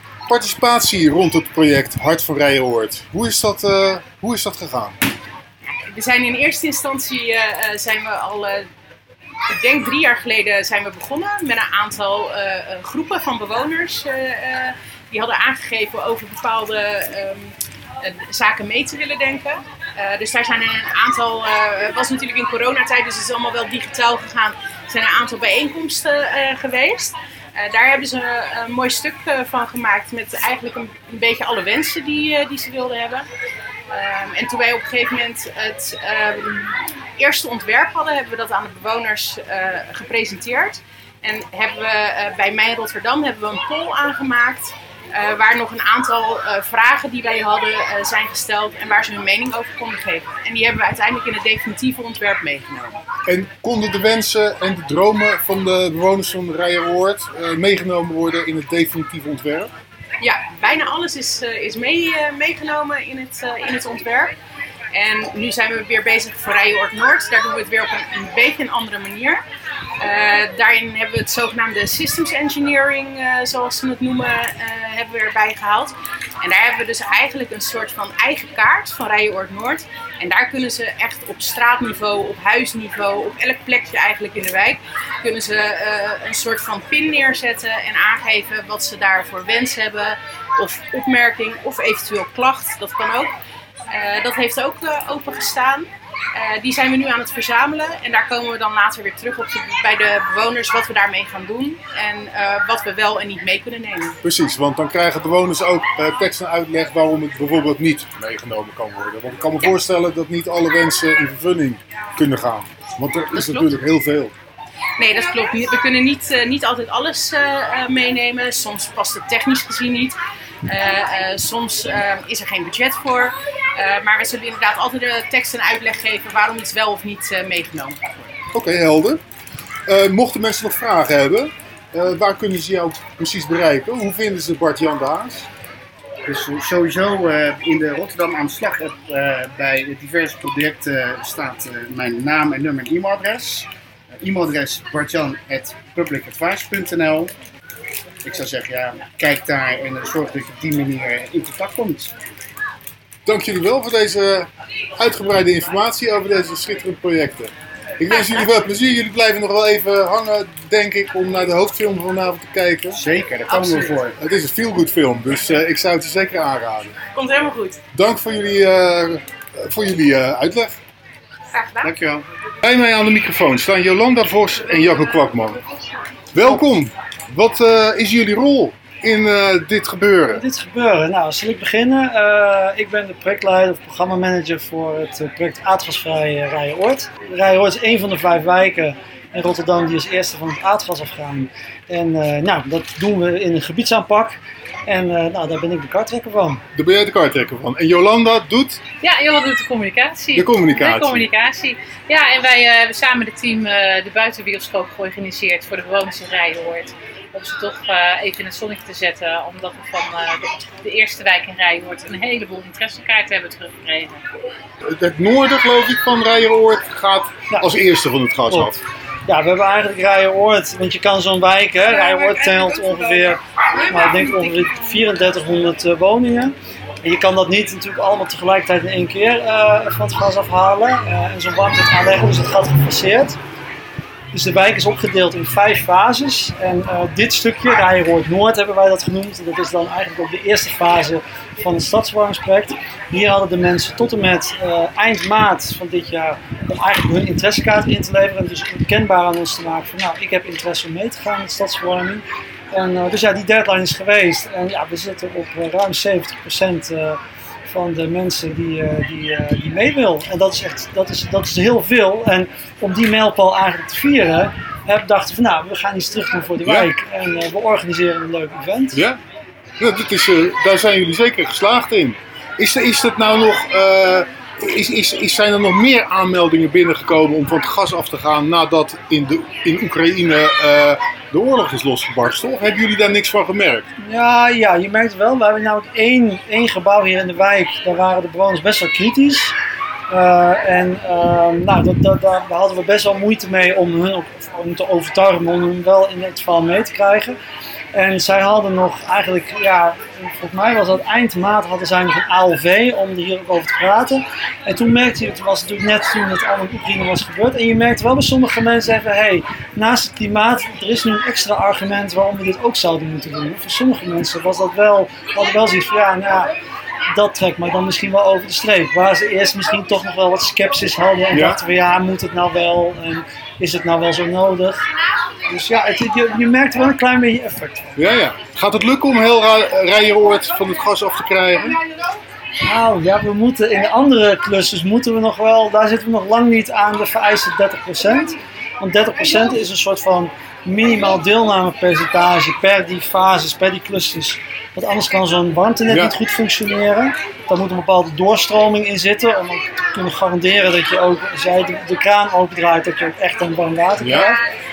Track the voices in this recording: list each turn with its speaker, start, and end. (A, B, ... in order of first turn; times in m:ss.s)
0:00.3-0:05.0 A
0:05.7-0:08.7 B
0:09.5-0:33.3 B
0:33.9-0:53.0 B
0:53.3-0:59.7 A
1:00.2-1:04.4 B
1:04.9-1:09.4 B
1:10.0-1:33.3 B
1:33.9-1:44.2 B
1:44.2-1:54.3 A
1:53.3-1:53.7 B
1:55.0-2:08.3 B
2:08.5-2:09.2 A
2:09.9-2:15.5 A
2:16.2-2:23.7 C
2:24.2-2:27.3 C
2:28.2-2:32.1 C
2:33.2-2:43.0 A
2:42.9-2:44.2 C
2:44.2-2:47.0 A
2:47.2-2:47.8 B
2:47.9-2:50.8 A
2:51.5-2:51.9 B
2:51.8-2:52.3 C
2:52.6-2:55.6 A
2:56.3-3:00.4 A
3:00.3-3:16.6 D
3:16.8-3:18.8 A
3:19.0-3:34.2 E
3:20.3-3:21.3 A
3:34.9-3:38.8 A
3:39.3-3:53.4 D
3:54.3-4:29.0 D
4:26.6-4:26.9 A
4:28.9-4:29.2 A
4:29.8-4:43.9 A
4:44.0-4:49.6 D
4:50.1-4:57.4 D
4:57.9-5:16.5 D
5:17.1-5:24.8 D
5:21.3-5:21.6 A
5:25.5-5:27.9 D
5:28.0-5:31.8 A
5:32.6-5:54.4 D
5:45.9-5:46.1 A
5:54.0-5:54.4 A